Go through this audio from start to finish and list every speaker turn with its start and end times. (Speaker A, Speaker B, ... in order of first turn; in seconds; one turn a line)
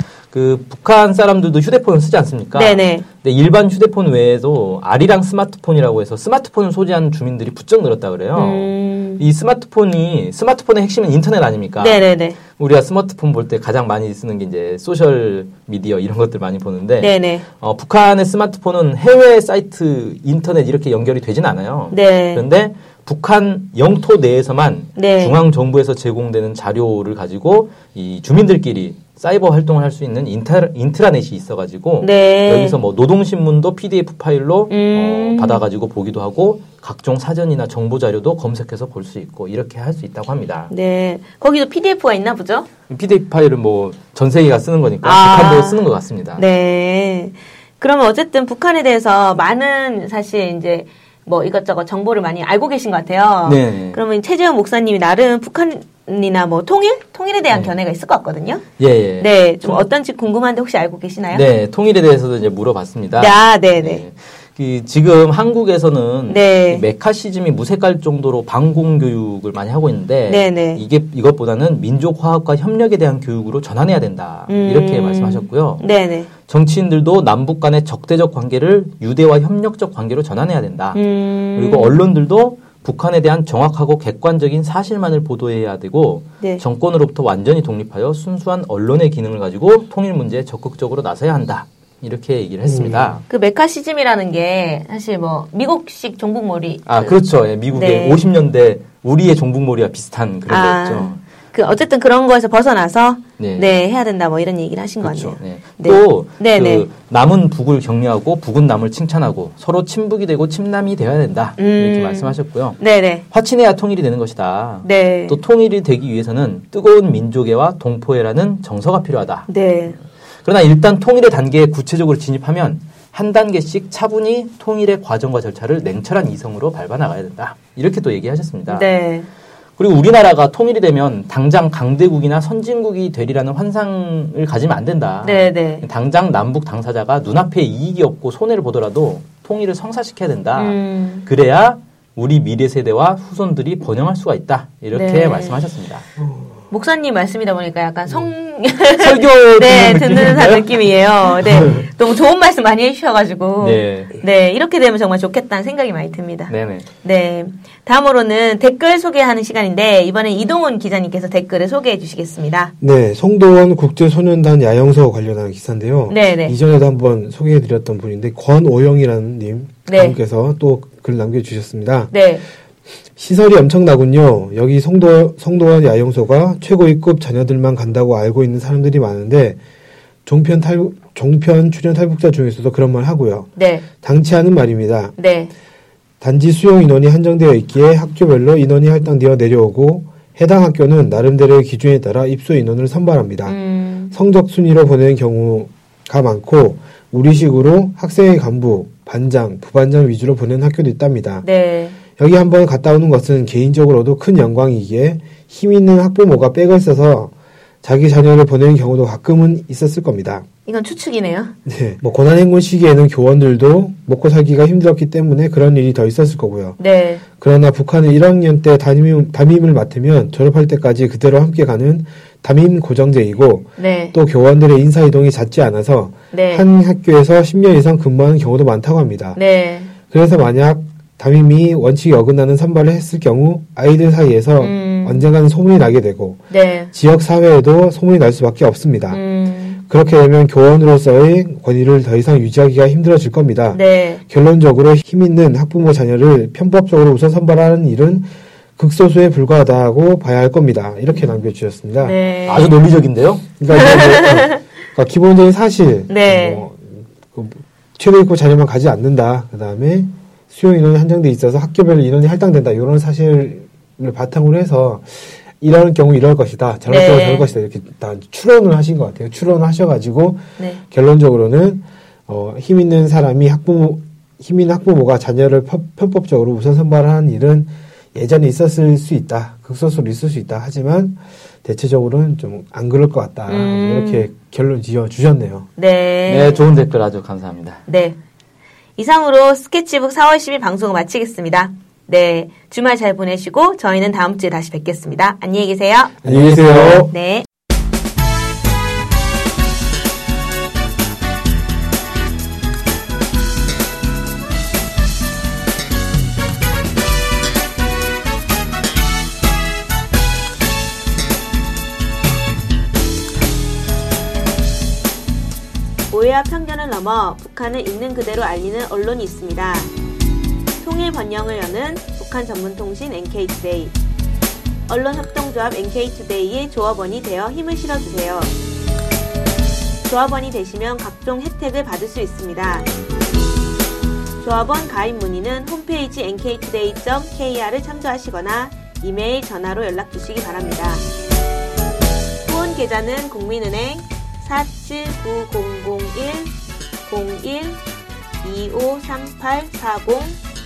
Speaker A: 0.3-40.7
Speaker B: 2.5-3.0
Speaker B: 8.3-9.2
Speaker B: 11.8-12.4
Speaker B: 17.0-17.4
Speaker B: 21.9-22.4
Speaker B: 24.9-25.4
Speaker B: 32.0-32.8
Speaker B: 34.7-35.6
Speaker B: 40.7-42.7
Speaker A: 42.9-46.4
Speaker B: 45.0-58.6
Speaker A: 53.4-54.0
Speaker A: 58.8-59.8
Speaker B: 59.2-61.5
Speaker A: 61.3-75.8
Speaker B: 63.1-64.0
Speaker B: 66.3-66.8
Speaker B: 70.3-70.8
Speaker B: 74.5-76.3
Speaker A: 76.5-81.0
Speaker B: 80.9-82.0
Speaker A: 81.5-93.2
Speaker C: 92.6-93.2
Speaker B: 93.3-98.2
Speaker A: 96.8-101.2
Speaker B: 100.5-106.9
Speaker A: 103.4-103.7
Speaker A: 105.0-112.8
Speaker B: 111.6-113.2
Speaker A: 113.3-119.5
Speaker B: 114.8-115.4
Speaker B: 119.5-120.0
Speaker A: 120.4-128.9
Speaker B: 128.7-129.3
Speaker A: 129.8-146.1
Speaker B: 135.2-135.8
Speaker B: 140.6-141.2
Speaker B: 144.9-145.6
Speaker C: 146.2-146.5
Speaker B: 146.7-162.7
Speaker A: 148.9-151.7
Speaker C: 151.5-151.9
Speaker A: 153.6-154.2
Speaker A: 156.5-156.9
Speaker C: 162.8-172.1
Speaker B: 166.1-166.6
Speaker B: 169.9-170.2
Speaker B: 172.1-172.4
Speaker C: 173.2-179.6
Speaker C: 180.2-183.5
Speaker B: 183.6-183.8
Speaker C: 184.0-185.1
Speaker B: 185.2-185.5
Speaker C: 186.2-193.6
Speaker B: 193.4-194.1
Speaker C: 194.1-201.4
Speaker B: 201.4-202.0
Speaker C: 202.2-207.3
Speaker C: 207.8-210.4
Speaker B: 210.7-211.5
Speaker C: 211.7-216.8
Speaker B: 216.8-217.2
Speaker C: 217.4-229.4
Speaker B: 223.8-224.2
Speaker B: 226.3-226.6
Speaker B: 229.3-229.9
Speaker C: 230.1-239.2
Speaker B: 234.6-235.3
Speaker B: 236.5-236.9
Speaker B: 239.1-239.8
Speaker C: 239.8-252.2
Speaker B: 243.7-244.2
Speaker B: 252.0-252.8
Speaker A: 252.5-253.4
Speaker C: 253.6-285.6
Speaker B: 253.7-254.6
Speaker B: 256.1-256.6
Speaker B: 266.9-267.5
Speaker B: 283.5-284.3
Speaker B: 285.8-286.6
Speaker A: 286.3-287.8
Speaker B: 287.9-288.2
Speaker B: 289.0-296.2
Speaker C: 296.2-297.1
Speaker A: 296.2-297.1
Speaker B: 296.9-297.4
Speaker B: 316.1-319.9
Speaker B: 320.8-323.9
Speaker B: 324.9-328.5
Speaker B: 330.0-332.9
Speaker B: 334.4-341.1
Speaker B: 342.4-346.5
Speaker B: 347.1-347.8
Speaker B: 348.4-350.4